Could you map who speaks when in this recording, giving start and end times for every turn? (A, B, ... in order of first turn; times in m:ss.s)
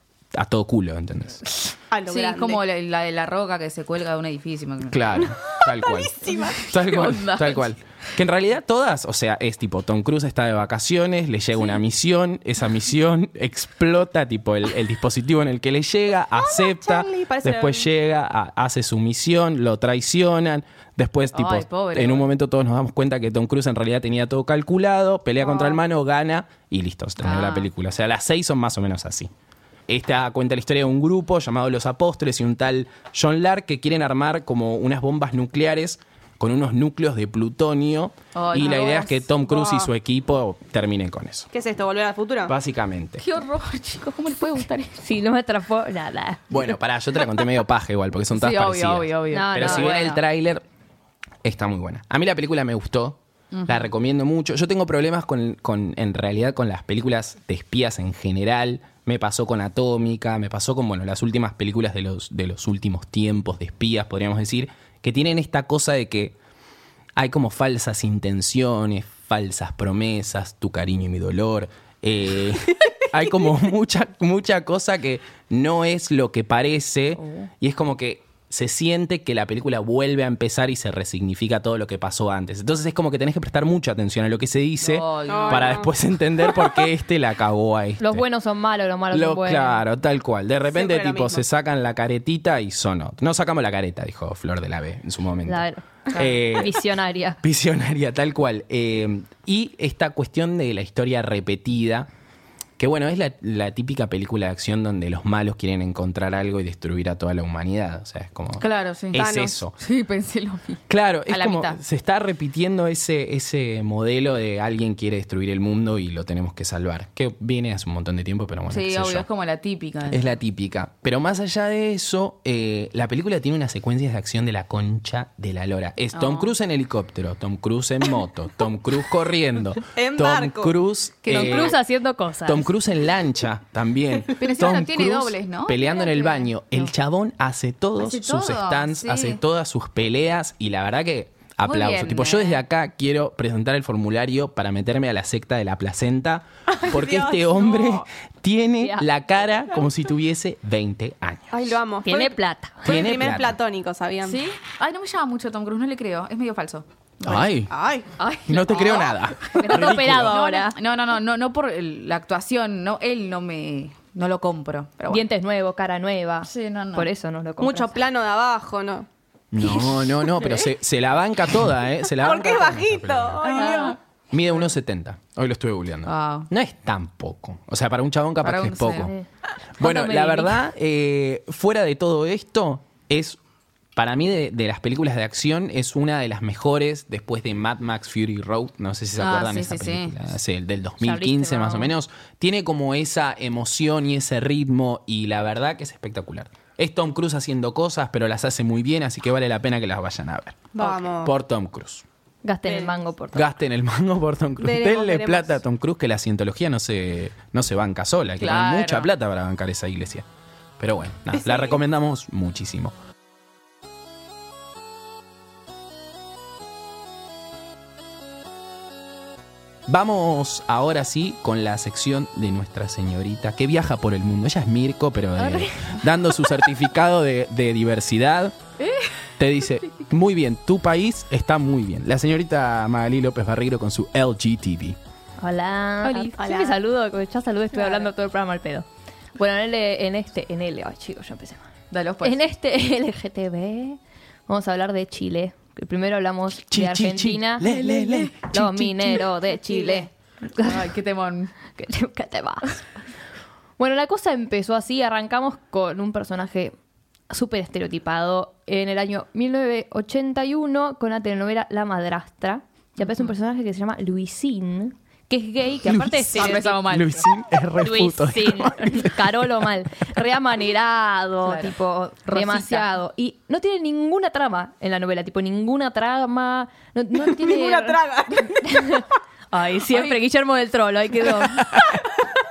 0:00.3-0:01.5 A
0:01.9-0:02.6 B
0:02.1-0:05.4 C
0:04.9-0:29.3 A
0:05.4-0:06.7 B
0:06.3-0:07.8 C
0:16.4-0:17.9 B
0:21.3-0:22.3 C
0:25.4-0:25.8 B
0:27.2-0:27.7 C
0:29.9-0:41.5 A
0:38.4-0:39.1 C
0:38.6-0:39.9 B
0:41.5-0:42.5 B
0:42.5-0:43.2 A
0:43.2-0:45.0 C
0:45.0-0:46.5 D
0:46.5-0:50.6 A
0:48.3-0:50.2 C
0:49.3-0:50.2 D
0:51.4-1:06.4 A
0:53.5-0:53.9 C
1:07.2-1:28.2 A
1:17.2-1:17.5 C
1:24.8-1:25.9 C
1:25.3-1:25.9 B
1:28.0-1:29.8 D
1:29.1-1:36.8 A
1:30.7-1:31.4 B
1:35.5-1:37.4 D
1:37.4-1:42.1 A
1:42.8-1:49.8 A
1:48.6-1:49.3 C
1:49.2-1:49.6 B
1:49.8-1:51.8 C
1:50.9-1:59.3 A
1:58.7-2:00.4 C
2:00.1-2:11.8 A
2:06.1-2:06.5 C
2:10.0-2:10.8 B
2:11.3-2:12.7 D
2:11.3-2:11.7 C
2:12.5-2:31.7 A
2:14.4-2:16.5 C
2:18.0-2:19.4 C
2:21.6-2:22.6 C
2:26.7-2:28.0 B
2:28.8-2:29.1 D
2:31.5-2:34.4 B
2:32.0-2:33.0 D
2:32.8-2:33.6 A
2:34.2-2:37.5 C
2:37.2-2:37.7 A
2:37.7-2:38.1 B
2:38.2-2:45.3 C
2:38.5-2:40.4 A
2:38.7-2:39.1 B
2:39.5-2:40.8 D
2:45.1-2:48.0 D
2:46.4-2:47.1 C
2:47.6-2:49.1 B
2:49.5-2:53.4 A
2:50.4-2:50.7 C
2:52.2-2:54.0 B
2:53.4-2:54.0 C
2:54.3-2:59.1 A
2:56.1-2:56.5 C
2:58.4-2:59.1 C
2:59.0-2:59.2 D
2:59.8-3:00.6 D
2:59.8-3:03.4 A
3:04.0-3:22.0 A
3:09.2-3:10.2 C
3:11.0-3:11.9 D
3:20.8-3:21.3 B
3:22.4-3:23.5 D
3:22.7-3:22.9 B
3:23.3-3:30.2 A
3:24.6-3:25.6 B
3:28.4-3:29.1 C
3:30.8-3:32.9 A
3:31.4-3:31.7 B
3:39.9-3:48.6 A
3:45.4-3:46.0 D
3:48.8-3:49.2 C
3:49.4-3:55.0 A
3:55.4-4:01.7 D
3:56.0-3:56.4 C
3:56.4-3:56.8 B
3:57.8-3:58.1 C
4:01.9-4:02.4 C
4:02.2-4:10.8 D
4:06.7-4:09.3 A
4:09.7-4:10.1 B
4:10.6-4:11.5 C
4:11.8-4:12.8 D
4:13.8-4:16.8 D
4:17.3-4:27.1 D
4:25.9-4:29.4 A
4:26.3-4:27.3 C
4:27.8-4:42.0 D
4:31.4-4:31.7 C
4:32.2-4:32.9 C
4:37.2-4:39.0 B